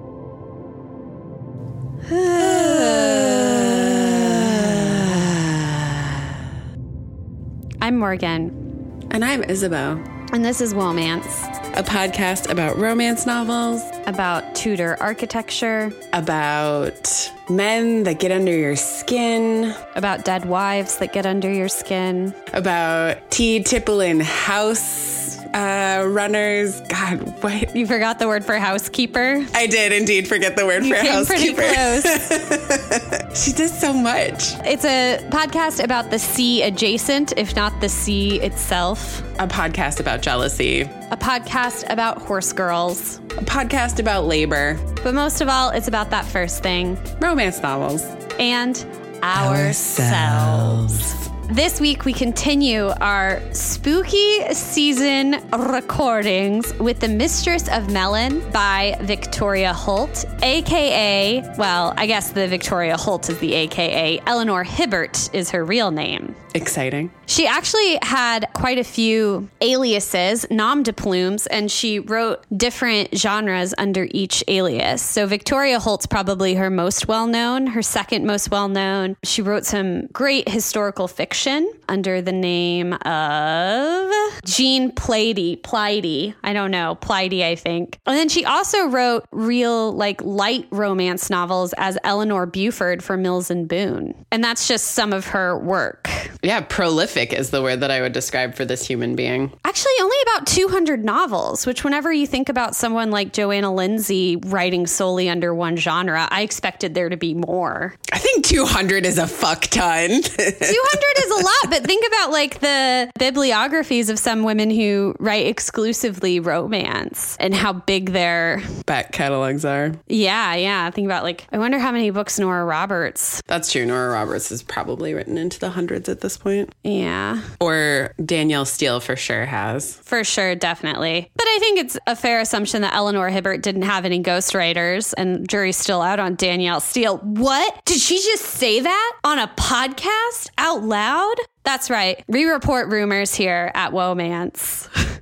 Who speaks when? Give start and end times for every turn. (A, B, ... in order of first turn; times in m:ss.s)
0:02.1-0:06.4 A
0:07.8-0:08.6 B
0:09.1-0:10.1 A
0:10.3-0:11.5 B
0:11.7-0:14.0 A
0:14.0-0:16.0 B
0:16.1-0:19.8 A
0:19.9-0:22.4 B
0:22.5-0:27.7 A
0:27.7-0:29.5 B
0:29.5-0:34.6 A
0:30.8-0:32.2 B
0:34.6-0:39.3 B
0:39.4-0:41.0 A
0:41.1-0:43.2 B
0:43.4-0:44.9 A
0:45.0-0:47.1 B
0:47.2-0:48.2 A
0:48.4-1:06.4 B
0:49.3-0:51.2 A
1:06.5-1:07.1 A
1:07.3-1:36.3 B
1:36.4-1:39.6 A
1:39.6-1:48.0 B
1:48.1-1:51.6 A
1:50.6-1:58.8 B
1:58.9-2:00.0 A
2:00.1-2:03.4 B
2:03.5-2:06.7 A
2:06.8-2:07.5 B
2:07.6-2:10.0 A
2:10.1-2:25.0 B